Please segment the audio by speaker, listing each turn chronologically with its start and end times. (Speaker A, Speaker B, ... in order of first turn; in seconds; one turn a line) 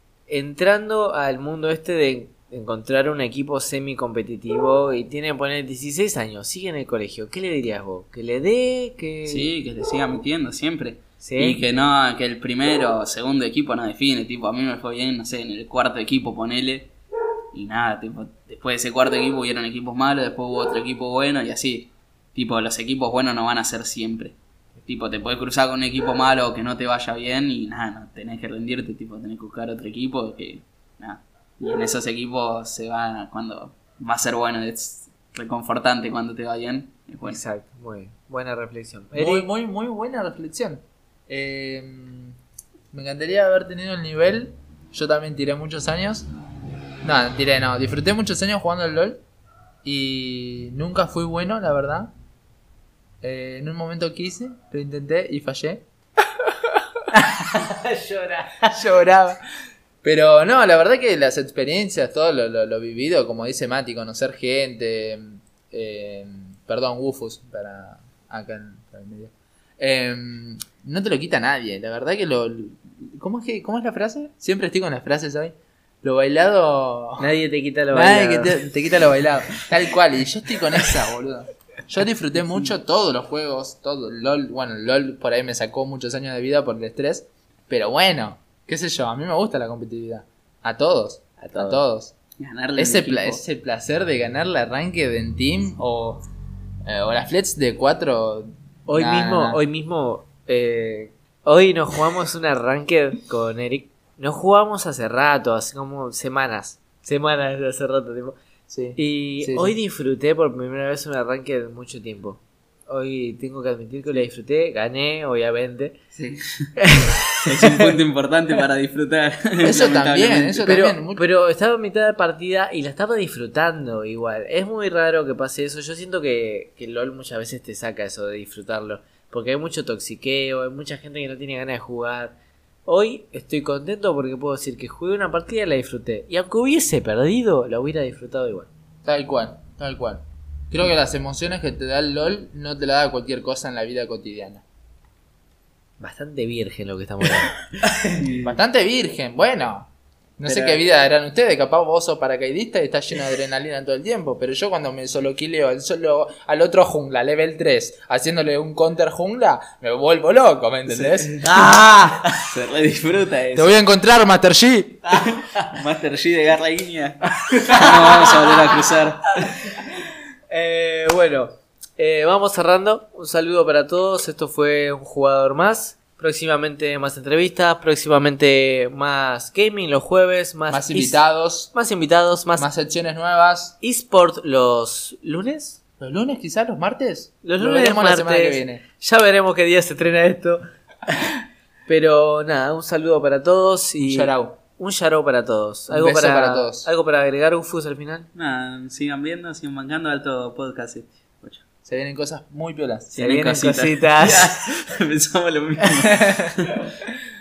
Speaker A: 0.3-9.5
Speaker B: 9.3-16.9
Speaker A: 11.2-11.6
Speaker B: 17.5-37.4
Speaker A: 37.2-39.5
Speaker C: 39.1-42.4
Speaker C: 42.9-46.3
Speaker C: 47.0-49.2
Speaker C: 49.8-52.1
Speaker C: 53.2-55.9
Speaker C: 56.5-56.8
Speaker A: 57.5-58.8
Speaker C: 58.6-59.4
Speaker C: 60.0-77.3
Speaker A: 77.2-78.6
Speaker C: 77.9-92.1
Speaker A: 91.4-91.8
Speaker B: 92.4-93.4
Speaker C: 92.8-96.2
Speaker C: 96.9-99.6
Speaker A: 98.9-108.4
Speaker C: 108.7-109.8
Speaker A: 109.0-116.0
Speaker B: 116.2-116.7
Speaker A: 116.8-117.9
Speaker B: 117.5-120.7
Speaker C: 119.6-121.2
Speaker A: 120.7-138.7
Speaker C: 139.1-144.6
Speaker A: 146.0-147.6
Speaker B: 148.1-148.6
Speaker C: 148.4-161.7
Speaker B: 150.4-150.8
Speaker B: 160.9-161.2
Speaker A: 161.4-162.5
Speaker B: 162.4-163.7
Speaker C: 163.6-165.2
Speaker B: 165.2-169.6
Speaker A: 165.2-165.7
Speaker A: 167.6-168.7
Speaker A: 169.7-170.0
Speaker A: 170.5-181.2
Speaker C: 180.7-181.7
Speaker A: 181.7-182.7
Speaker C: 182.6-183.8
Speaker A: 183.8-185.8
Speaker C: 186.0-188.8
Speaker A: 187.4-190.6
Speaker A: 191.9-198.3
Speaker C: 194.0-194.6
Speaker C: 195.9-196.9
Speaker B: 198.3-201.6
Speaker C: 201.8-203.2
Speaker A: 203.1-204.7
Speaker B: 203.2-206.7
Speaker C: 206.2-206.5